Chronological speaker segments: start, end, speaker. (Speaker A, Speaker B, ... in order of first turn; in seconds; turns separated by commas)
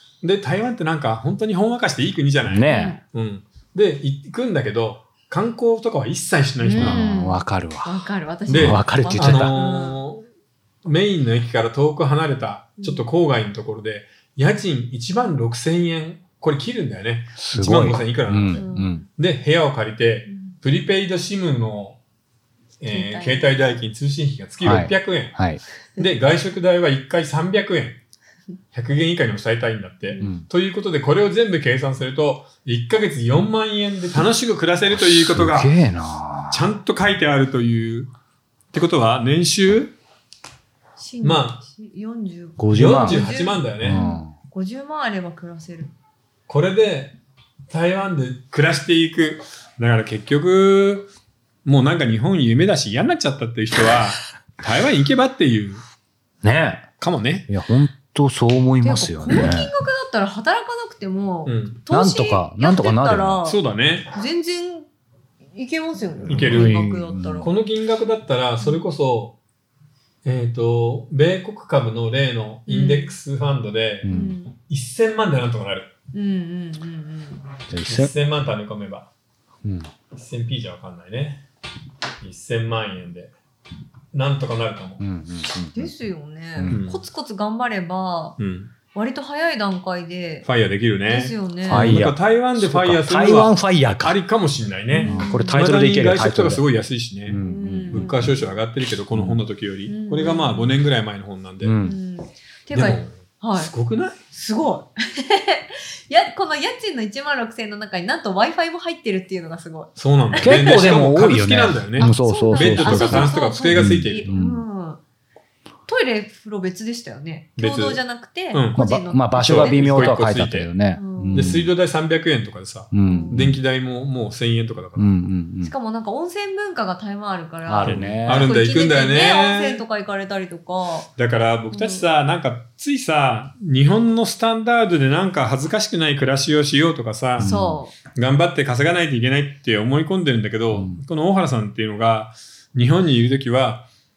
Speaker A: 0.2-7.0, Speaker B: 2.4-3.0, Speaker C: 2.7-3.0, Speaker C: 6.6-10.0, Speaker B: 6.7-9.6, Speaker A: 8.5-10.2, Speaker A: 10.8-22.0, Speaker C: 12.8-13.1, Speaker B: 17.4-19.0, Speaker C: 18.5-19.0, Speaker C: 20.3-20.5, Speaker A: 22.8-25.4, Speaker C: 22.9-23.7, Speaker B: 24.6-25.6, Speaker A: 26.0-28.0, Speaker A: 28.7-35.8, Speaker C: 30.1-30.4, Speaker B: 30.2-30.4, Speaker B: 34.9-36.7, Speaker A: 36.5-38.1, Speaker A: 38.7-40.0, Speaker C: 41.0-45.9, Speaker A: 41.2-41.6, Speaker B: 42.6-43.2, Speaker A: 42.7-44.0, Speaker B: 43.8-44.3, Speaker A: 46.5-47.1, Speaker A: 47.7-51.1, Speaker A: 51.6-55.8, Speaker B: 56.4-56.9, Speaker A: 57.0-57.5, Speaker B: 57.5-59.7, Speaker C: 58.8-63.6, Speaker A: 61.5-61.8, Speaker B: 61.9-63.4, Speaker A: 63.4-64.1, Speaker C: 64.1-64.9, Speaker C: 65.5-67.5, Speaker A: 66.3-66.8, Speaker B: 66.3-67.5, Speaker A: 67.4-69.4, Speaker A: 70.2-74.1, Speaker C: 72.7-73.2, Speaker B: 74.0-74.3, Speaker C: 74.1-74.5, Speaker A: 74.7-75.9, Speaker C: 76.1-77.4, Speaker B: 77.7-78.1, Speaker A: 77.8-79.1, Speaker B: 79.6-79.9, Speaker A: 80.1-81.4, Speaker A: 82.2-83.3, Speaker A: 84.1-85.0, Speaker B: 85.0-85.9, Speaker C: 85.7-88.4, Speaker B: 86.5-86.8, Speaker A: 86.7-87.0, Speaker A: 88.4-88.7, Speaker C: 88.9-90.5, Speaker A: 90.4-101.8, Speaker C: 91.0-92.0, Speaker B: 91.6-94.2, Speaker C: 94.9-95.7, Speaker B: 95.0-96.6, Speaker B: 97.3-98.3, Speaker C: 97.4-98.4, Speaker B: 99.1-99.4, Speaker C: 99.9-100.8, Speaker B: 101.6-102.0, Speaker C: 101.8-103.7, Speaker A: 102.7-104.2, Speaker C: 104.3-110.9, Speaker A: 110.0-114.3, Speaker B: 110.4-114.6, Speaker C: 112.0-115.0, Speaker C: 115.9-120.2, Speaker A: 117.6-118.0, Speaker A: 118.5-118.8, Speaker B: 118.8-121.7, Speaker A: 119.3-120.7, Speaker C: 121.0-121.6, Speaker A: 121.3-125.1, Speaker B: 122.9-123.6, Speaker C: 123.0-123.4, Speaker B: 125.0-125.7, Speaker C: 125.6-131.1, Speaker B: 127.7-128.5, Speaker A: 127.8-129.8, Speaker A: 131.2-137.5, Speaker C: 131.7-132.1, Speaker B: 137.4-137.8, Speaker C: 137.4-137.9, Speaker A: 138.1-143.9, Speaker B: 140.7-141.0